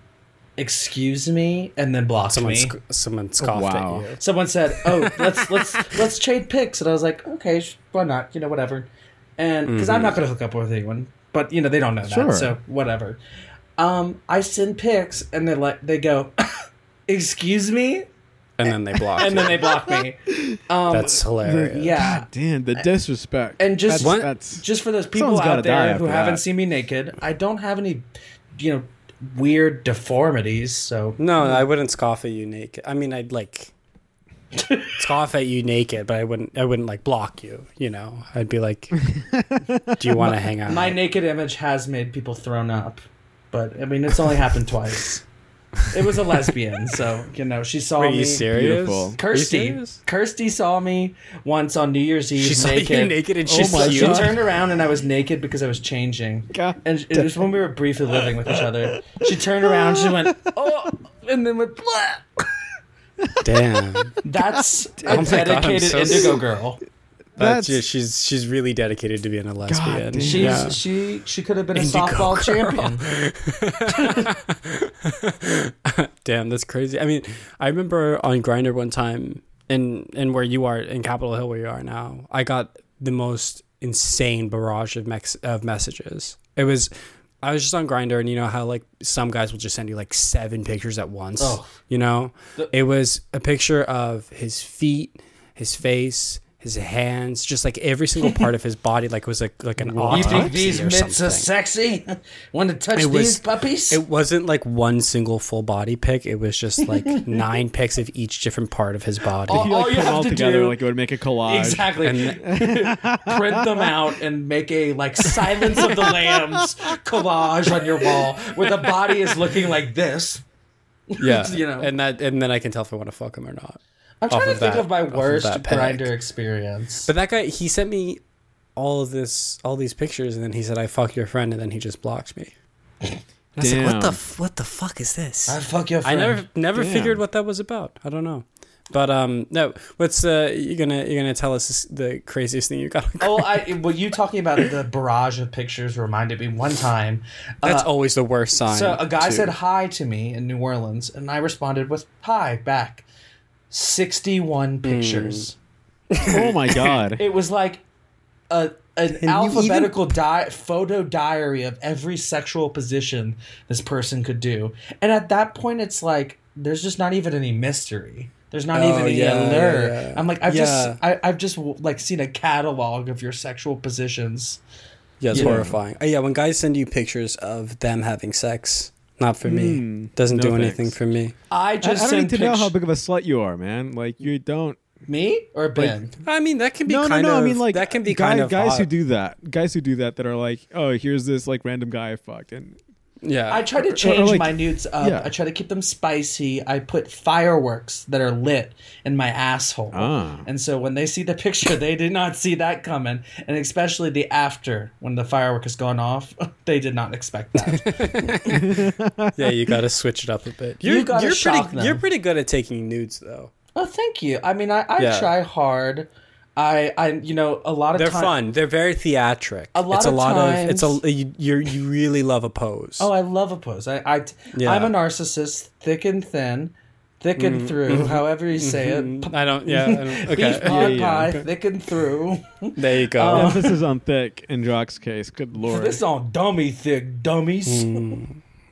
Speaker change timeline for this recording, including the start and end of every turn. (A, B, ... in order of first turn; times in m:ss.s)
0:00.6-0:02.8 A
0:02.3-0:04.2 B
0:03.4-0:04.1 C
0:04.2-0:13.2 A
0:09.7-0:10.2 B
0:12.0-0:12.6 C
0:13.8-0:16.3 A
0:17.1-0:18.1 A
0:18.6-0:19.7 B
0:19.2-0:22.9 A
0:19.7-0:20.6 C
0:20.9-0:22.0 B
0:21.4-0:26.4 C
0:23.6-0:28.1 A
0:24.0-0:24.3 B
0:28.6-0:31.7 A
0:31.2-0:33.7 B
0:34.6-0:34.9 A
0:35.0-0:39.1 B
0:39.3-0:39.8 C
0:40.0-0:41.0 B
0:40.2-0:43.0 A
0:43.5-0:45.2 A
0:45.9-0:48.4 A
0:48.0-0:50.0 B
0:48.4-0:49.2 C
0:49.2-1:02.4 A
0:52.4-0:54.4 B
0:53.5-0:54.4 C
0:58.2-0:58.7 C
0:59.7-1:00.3 C
1:03.4-1:04.2 B
1:04.2-1:06.8 A
1:04.6-1:05.3 C
1:05.0-1:06.4 B
1:07.4-1:07.8 C
1:07.4-1:10.8 B
1:09.7-1:10.7 C
1:10.2-1:13.1 A
1:11.8-1:26.9 B
1:27.4-1:41.5 B
1:31.4-1:31.8 A
1:39.8-1:40.6 C
1:40.1-1:44.0 A
1:43.0-1:49.7 B
1:49.5-1:50.8 A
1:49.5-1:54.0 C
1:51.4-2:00.4 A
1:52.0-1:52.4 B
1:55.2-1:56.6 C
1:55.8-1:56.1 B
2:01.2-2:01.9 A
2:01.2-2:06.1 B
2:04.2-2:07.1 A
2:07.1-2:08.2 B
2:08.8-2:12.5 B
2:13.6-2:23.7 B
2:13.6-2:14.2 C
2:15.5-2:16.4 A
2:16.8-2:17.2 C
2:23.2-2:27.9 A
2:27.6-2:29.6 B
2:28.7-2:33.1 A
2:33.7-2:35.6 A
2:34.8-2:35.5 B
2:36.1-2:37.0 B
2:36.2-2:37.2 C
2:37.2-2:37.8 A
2:38.5-2:54.6 A
2:39.1-2:40.0 B
2:48.7-2:51.0 B
2:55.2-3:01.4 B
2:55.3-2:55.8 A
2:55.3-2:55.8 C
2:59.4-3:01.0 C
3:01.5-3:02.7 A
3:01.8-3:04.8 C
3:05.1-3:06.1 A
3:06.2-3:08.9 B
3:06.9-3:12.8 C
3:13.2-3:13.7 B
3:13.5-3:28.5 A
3:13.8-3:15.3 C
3:19.9-3:20.5 C
3:27.6-3:28.8 B
3:28.6-3:29.3 C
3:29.4-3:33.5 B
3:30.8-3:32.0 A
3:33.8-3:38.4 A
3:35.0-3:35.3 B
3:38.0-3:43.1 B
3:39.7-3:41.0 A
3:43.0-3:53.7 A
3:44.5-3:44.9 B
3:47.4-3:51.5 B
3:50.6-3:51.3 C
3:52.8-3:53.6 B
3:53.3-3:56.0 C
3:55.7-3:58.2 A
3:57.7-3:58.4 B